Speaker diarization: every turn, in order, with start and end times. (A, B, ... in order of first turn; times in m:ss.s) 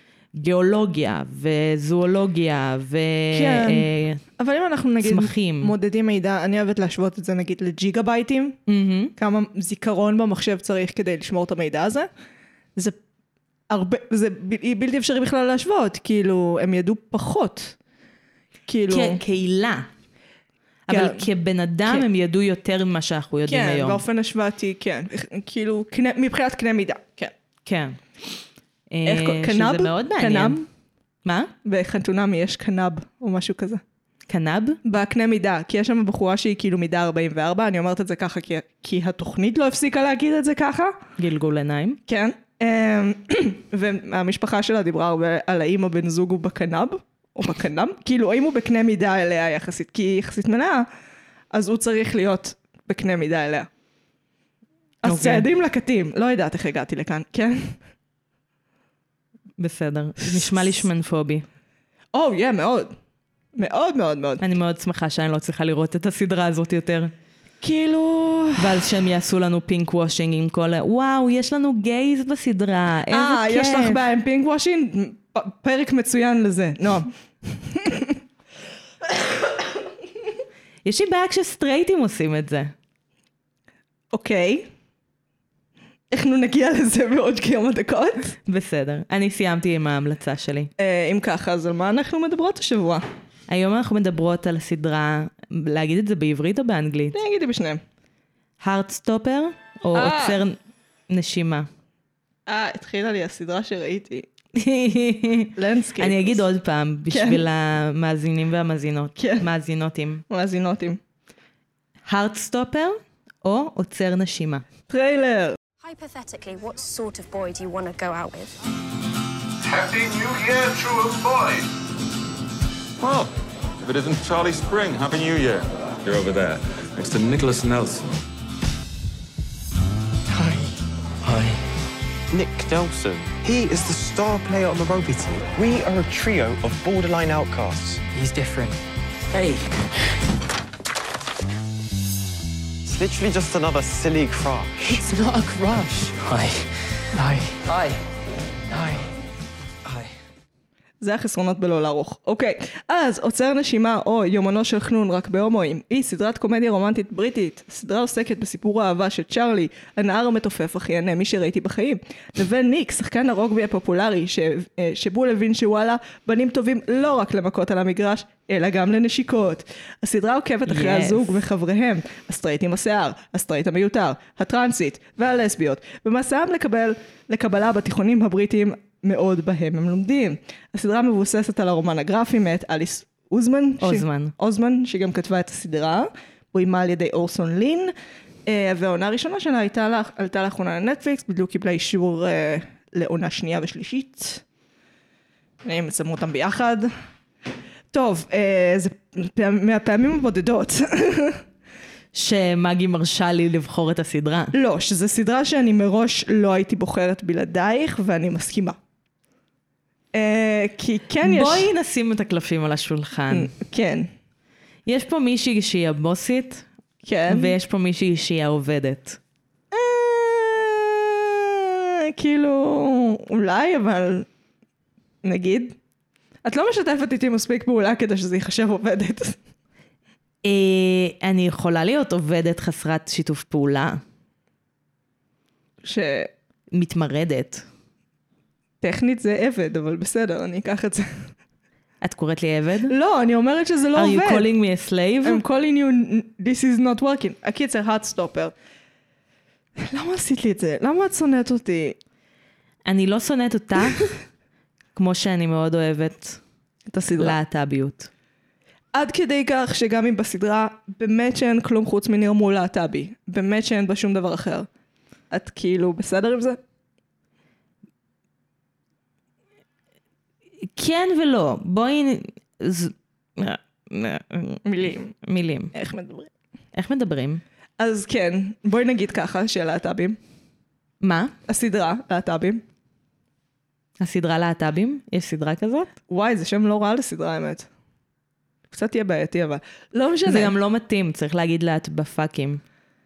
0:00.4-0:04.2 A
0:03.3-0:08.6 B
0:05.0-0:05.7 A
0:08.7-0:09.1 A
0:09.2-0:12.1 B
0:13.7-0:17.8 B
0:18.7-0:19.2 B
0:18.9-0:19.9 A
0:20.9-0:24.0 A
0:20.9-0:21.3 B
0:23.5-0:27.3 B
0:27.6-0:28.0 A
0:28.9-0:30.6 A
0:29.0-0:30.6 B
0:31.2-0:31.5 A
0:31.6-0:33.8 B
0:34.3-0:34.8 A
0:34.8-0:41.0 B
0:41.2-0:42.0 A
0:42.1-0:50.9 B
0:51.5-0:53.7 B
0:55.0-0:57.8 B
0:55.0-0:55.5 A
0:59.6-1:01.5 A
1:02.1-1:02.9 B
1:03.6-1:04.4 B
1:04.4-1:07.1 A
1:07.6-1:08.8 B
1:08.6-1:14.0 A
1:13.1-1:18.2 B
1:20.8-1:22.7 A
1:24.1-1:24.7 B
1:26.1-1:28.4 B
1:28.5-1:30.7 A
1:30.8-1:33.0 B
1:33.5-1:37.2 A
1:37.1-1:37.8 B
1:38.6-1:40.6 A
1:39.9-1:40.4 B
1:41.1-1:41.7 A
1:42.5-1:44.3 B
1:44.6-1:50.2 A
1:45.6-1:46.4 B
1:47.1-1:47.4 B
1:49.2-1:49.5 B
1:50.3-1:51.0 B
1:52.1-1:54.6 A
1:54.9-1:55.6 B
1:55.8-1:58.6 C
1:59.6-2:01.7 D
2:03.0-2:08.1 E
2:10.3-2:11.6 F
2:12.3-2:18.0 G
2:18.1-2:18.8 F
2:19.3-2:19.9 F
2:22.8-2:25.1 G
2:24.8-2:28.0 F
2:28.7-2:29.1 F
2:31.0-3:07.9 B
2:50.7-2:51.4 A
3:03.8-3:04.3 A
3:08.5-3:14.4 B
3:15.6-3:16.9 B
3:17.9-3:21.4 B
3:22.1-3:24.5 A
3:24.5-3:28.8 B
3:30.1-3:31.7 B
3:31.2-3:33.5 A
3:33.3-3:34.1 B
3:34.9-3:36.7 A
3:37.0-3:37.5 B
3:37.3-3:39.2 A
3:39.7-3:44.3 B
3:45.2-3:45.8 B
3:46.4-3:49.4 B
3:50.4-3:54.0 A
3:55.8-3:56.3 B
3:56.7-3:57.6 A
3:58.8-4:01.1 B
4:02.0-4:02.9 A
4:02.9-4:04.5 B
4:04.0-4:05.4 A
4:05.2-4:08.5 B
4:09.8-4:12.0 B
4:12.8-4:14.1 A
4:15.0-4:16.4 A
4:16.9-4:17.4 B
4:17.2-4:18.1 A
4:18.9-4:24.7 B
4:25.3-4:26.6 B
4:30.6-4:35.7 A
4:34.6-4:35.1 B
4:35.7-4:36.3 B
4:36.7-4:37.4 A
4:37.8-4:40.2 B
4:41.0-4:41.3 A
4:41.5-4:42.6 B
4:44.0-4:45.9 A
4:46.1-4:47.7 B
4:48.7-4:50.5 B
4:50.2-4:52.6 A